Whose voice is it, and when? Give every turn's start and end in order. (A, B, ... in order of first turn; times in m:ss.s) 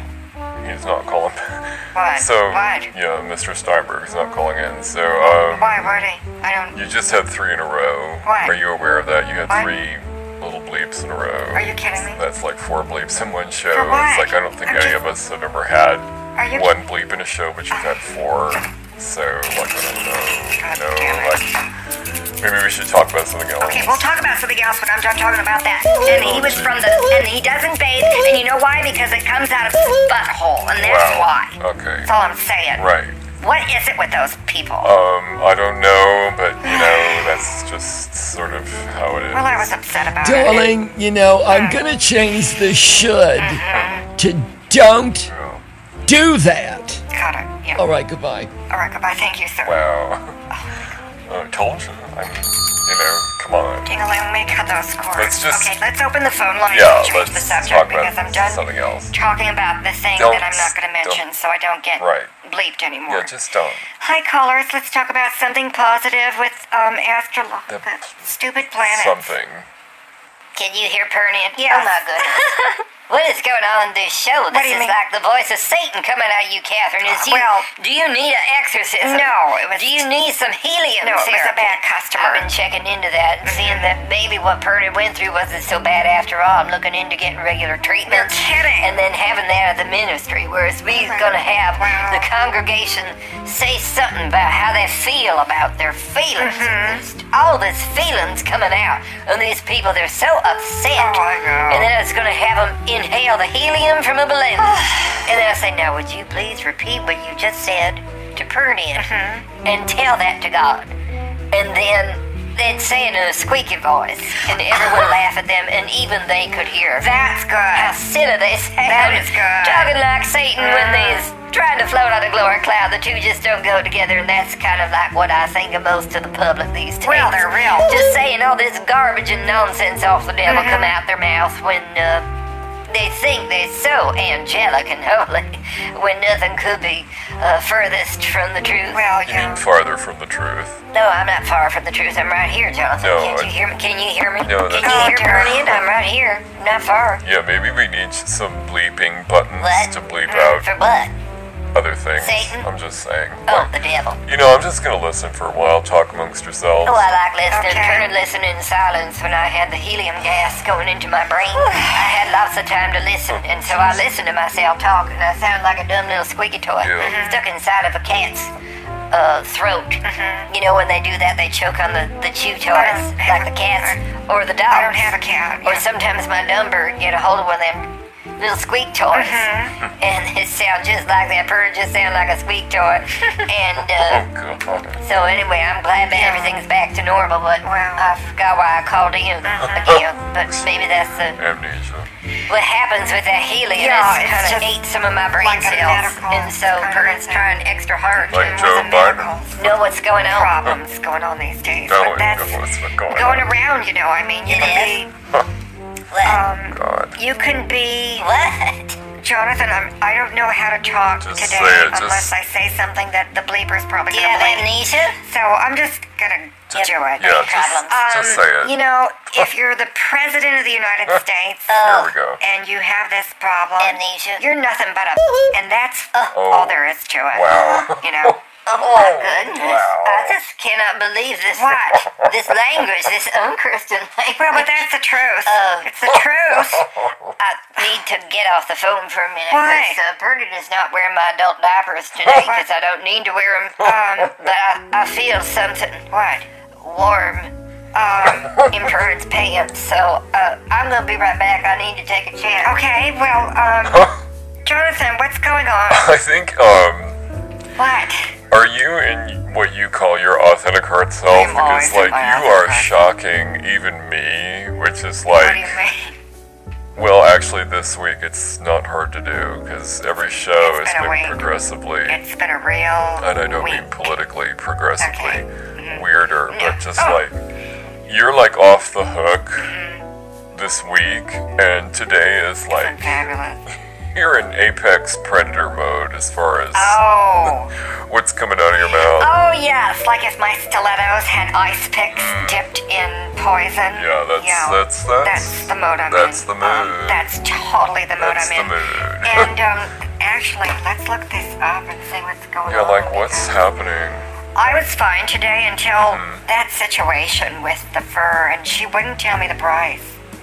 0:00.6-0:05.8 A
0:01.9-0:02.9 B
0:05.2-0:06.8 B
0:06.7-0:21.6 A
0:08.2-0:08.6 B
0:09.5-0:09.7 B
0:11.5-0:12.2 B
0:13.7-0:15.0 B
0:16.4-0:16.7 B
0:20.6-0:21.5 B
0:22.4-0:24.1 A
0:23.6-0:30.0 B
0:26.1-0:26.9 A
0:29.9-0:31.5 C
0:30.7-0:32.1 A
0:32.0-0:32.9 B
0:32.8-0:33.2 A
0:33.4-0:34.9 B
0:34.8-0:39.8 A
0:36.6-0:37.4 B
0:39.3-0:40.7 B
0:40.2-0:45.3 D
0:41.5-0:41.8 B
0:43.4-0:44.1 B
0:43.7-0:44.0 A
0:45.3-0:45.6 A
0:46.0-0:47.0 D
0:47.1-0:47.8 B
0:47.7-0:48.5 D
0:48.7-0:49.8 B
0:49.6-0:50.3 A
0:51.3-0:53.9 A
0:53.8-1:03.4 B
0:55.1-0:55.8 A
0:56.7-0:59.2 A
1:00.1-1:01.2 A
1:02.0-1:02.3 A
1:03.1-1:03.9 A
1:04.0-1:09.4 B
1:07.7-1:08.2 A
1:08.8-1:09.7 A
1:10.6-1:49.1 C
1:11.6-1:12.4 B
1:14.5-1:15.0 B
1:17.0-1:17.7 B
1:19.0-1:20.1 B
1:21.0-1:22.5 B
1:23.4-1:23.9 B
1:28.1-1:28.9 B
1:30.9-1:32.3 B
1:36.4-1:37.0 B
1:41.0-1:41.9 B
1:44.6-1:45.2 B
1:49.0-1:49.5 B
1:49.6-1:50.9 C
1:51.5-1:57.1 C
1:57.0-1:58.0 B
1:57.7-2:12.3 C
1:58.8-1:59.9 B
2:00.6-2:01.3 B
2:07.0-2:08.0 B
2:10.4-2:10.9 B
2:12.9-2:19.0 C
2:18.9-2:19.6 B
2:19.2-2:20.8 A
2:20.9-2:27.2 C
2:23.0-2:23.6 A
2:24.4-2:25.9 A
2:24.7-2:25.6 B
2:27.2-2:30.7 A
2:29.6-2:31.1 C
2:30.3-2:30.6 B
2:31.7-2:33.7 A
2:32.2-2:32.7 C
2:33.5-2:34.2 C
2:34.2-2:37.1 A
2:36.8-2:48.5 C
2:37.5-2:38.1 B
2:41.6-2:42.0 B
2:46.8-2:47.2 A
2:47.0-2:47.4 B
2:49.1-3:04.3 C
2:50.0-2:50.5 B
2:52.7-2:54.0 B
2:54.7-2:55.8 B
2:59.1-2:59.8 B
3:04.0-3:05.0 A
3:05.0-3:11.4 C
3:06.1-3:06.6 B
3:07.6-3:08.2 B
3:09.4-3:10.0 B
3:09.7-3:10.8 A
3:11.3-3:12.1 A
3:12.5-3:18.9 C
3:13.7-3:14.8 B
3:15.4-3:17.5 B
3:18.2-3:25.1 B
3:18.3-3:19.4 A
3:19.6-3:20.6 C
3:21.9-3:23.5 A
3:24.5-3:25.0 C
3:26.1-3:26.4 C
3:26.2-3:28.3 B
3:26.7-3:27.2 A
3:28.2-3:29.0 C
3:29.2-3:41.8 B
3:31.2-3:32.3 A
3:34.1-3:35.2 C
3:36.7-3:38.8 A
3:36.7-3:38.2 C
3:41.7-3:42.1 C
3:41.8-3:42.4 A
3:42.4-3:48.4 B
3:43.8-3:44.4 C
3:46.3-3:50.4 A
3:48.6-3:54.9 C
3:51.5-3:52.1 B
3:54.3-3:56.9 B
3:55.4-3:56.0 C
3:56.8-3:57.3 A
3:57.4-4:06.0 C
3:59.5-4:00.0 B
4:02.3-4:02.6 B
4:03.8-4:04.4 B
4:06.1-4:06.5 B
4:06.8-4:07.5 C
4:07.9-4:08.7 B
4:08.5-4:12.8 C
4:12.6-4:14.1 B
4:13.9-4:14.2 A
4:14.6-4:16.1 B
4:15.9-4:17.2 A
4:17.8-4:18.3 B
4:18.5-4:25.8 A
4:21.3-4:23.0 B
4:25.3-4:26.1 B
4:27.0-4:32.2 A
4:30.6-4:31.5 B
4:32.0-4:34.2 B
4:33.2-4:37.4 A
4:35.0-4:37.2 B
4:38.0-4:39.7 A
4:39.6-4:40.0 B
4:40.5-4:43.2 A
4:42.7-4:43.6 B
4:44.1-4:47.5 A
4:46.7-4:47.7 B
4:48.1-4:49.3 A
4:48.9-5:03.6 B
4:52.1-4:52.6 A
4:53.9-4:57.3 A
4:58.2-4:59.5 A
5:02.6-5:04.2 A
5:04.5-5:10.2 B
5:06.0-5:06.4 A